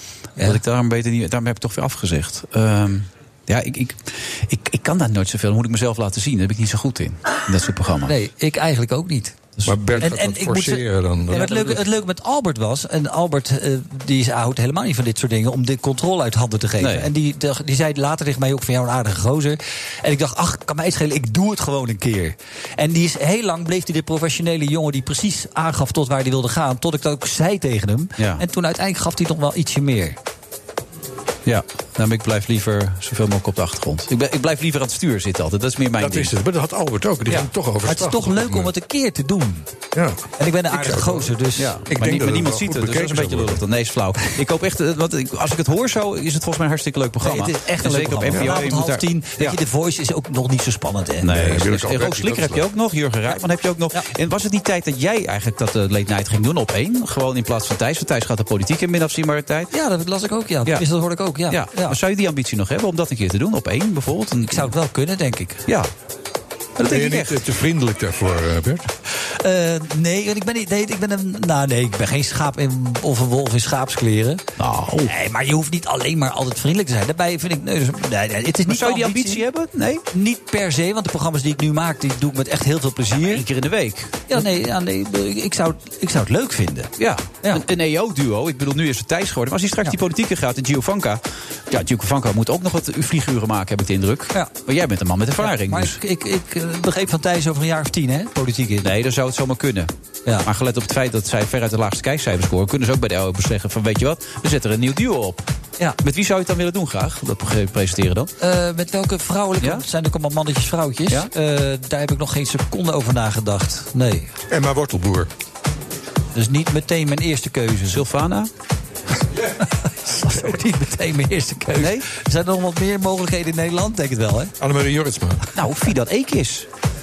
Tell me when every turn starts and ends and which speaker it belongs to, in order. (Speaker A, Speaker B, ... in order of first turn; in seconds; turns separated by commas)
Speaker A: 0.4-8.1, Speaker B: 8.1-9.4, Speaker A: 9.6-10.0, Speaker C: 9.6-11.8, Speaker B: 10.0-30.2, Speaker A: 11.3-11.8, Speaker A: 16.8-17.1, Speaker A: 28.2-28.4, Speaker A: 31.4-36.3, Speaker C: 36.0-38.7, Speaker B: 37.8-39.7, Speaker C: 39.9-41.3, Speaker B: 40.4-41.8, Speaker A: 41.5-49.6, Speaker C: 41.9-43.6, Speaker B: 47.2-51.3, Speaker A: 51.2-59.7, Speaker C: 51.2-52.6, Speaker B: 59.7-62.0, Speaker A: 61.5-64.7, Speaker B: 64.5-65.6, Speaker A: 66.8-67.4, Speaker C: 66.9-68.9, Speaker B: 69.4-74.4, Speaker A: 74.6-75.1, Speaker B: 75.0-79.4, Speaker A: 78.7-80.0, Speaker B: 80.1-83.4, Speaker A: 83.1-84.5, Speaker B: 84.3-86.9, Speaker A: 87.0-96.0, Speaker B: 95.4-98.8, Speaker A: 98.8-99.9, Speaker A: 100.4-105.4, Speaker A: 106.0-108.3, Speaker B: 108.4-114.3, Speaker C: 114.5-115.3, Speaker B: 116.3-118.0, Speaker A: 117.9-118.5, Speaker B: 120.0-124.5, Speaker A: 121.8-122.0, Speaker C: 124.6-125.4, Speaker A: 125.5-126.7